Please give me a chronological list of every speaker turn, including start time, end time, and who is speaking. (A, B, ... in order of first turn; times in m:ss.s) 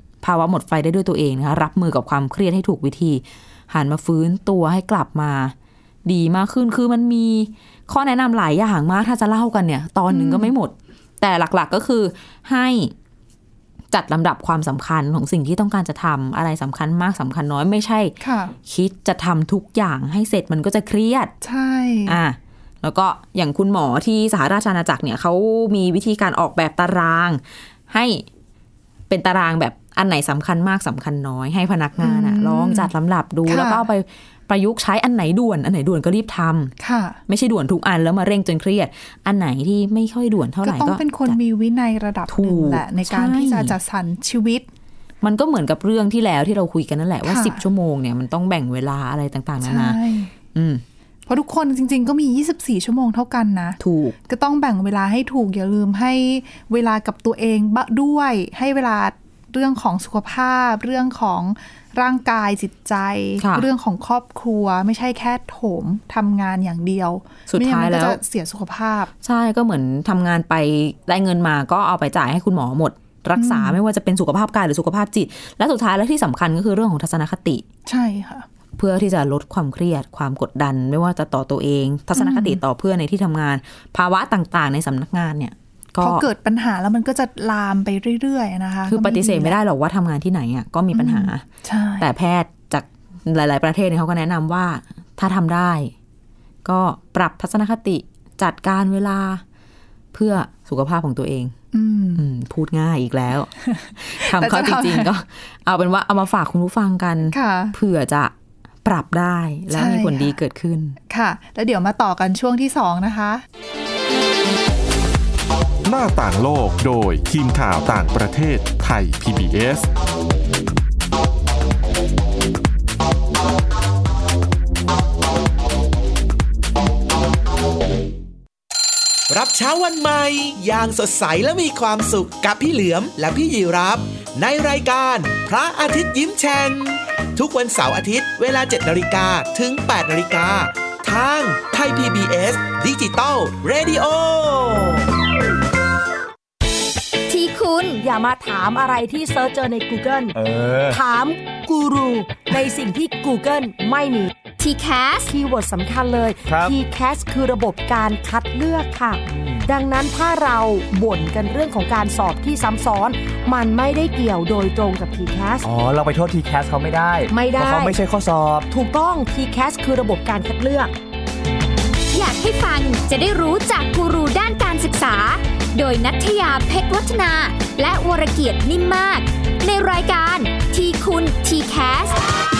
0:00.2-0:12.9 A
0:10.1-0:10.5 B
0:13.9-0:21.3 A
0:18.2-0:18.5 B
0:21.4-0:22.2 B
0:22.0-0:28.2 A
0:29.1-0:36.7 A
0:32.0-0:32.9 B
0:33.4-0:33.8 B
0:36.8-0:37.2 B
0:37.3-0:41.4 A
0:40.6-0:44.6 B
0:42.3-0:43.8 A
0:45.2-0:50.0 A
0:47.2-0:47.6 B
0:49.6-0:50.3 B
0:50.5-0:50.8 A
0:51.3-1:09.1 B
0:53.8-0:54.2 A
1:03.4-1:03.7 A
1:07.5-1:08.2 A
1:09.2-1:17.6 A
1:13.4-1:13.8 B
1:17.8-1:18.5 B
1:18.8-1:26.2 A
1:22.1-1:22.6 B
1:26.0-1:29.5 B
1:28.9-1:31.4 A
1:30.9-1:32.0 B
1:32.0-1:35.9 A
1:36.6-1:39.4 A
1:40.1-1:41.5 A
1:41.7-1:42.2 B
1:42.2-1:48.3 A
1:43.6-1:45.1 B
1:47.3-1:47.7 B
1:48.8-1:51.0 A
1:49.7-1:50.4 B
1:51.1-1:53.4 B
1:55.8-1:59.9 C
2:09.3-2:25.1 D
2:27.3-2:28.0 E
2:28.0-2:30.4 F
2:30.3-2:31.0 G
2:30.9-2:34.3 F
2:34.6-2:35.3 E
2:35.3-2:45.6 F
2:36.4-2:36.7 G
2:39.3-2:39.6 G
2:45.6-2:48.7 G
2:47.3-2:48.0 F
2:48.7-2:50.9 F
2:52.1-3:02.2 E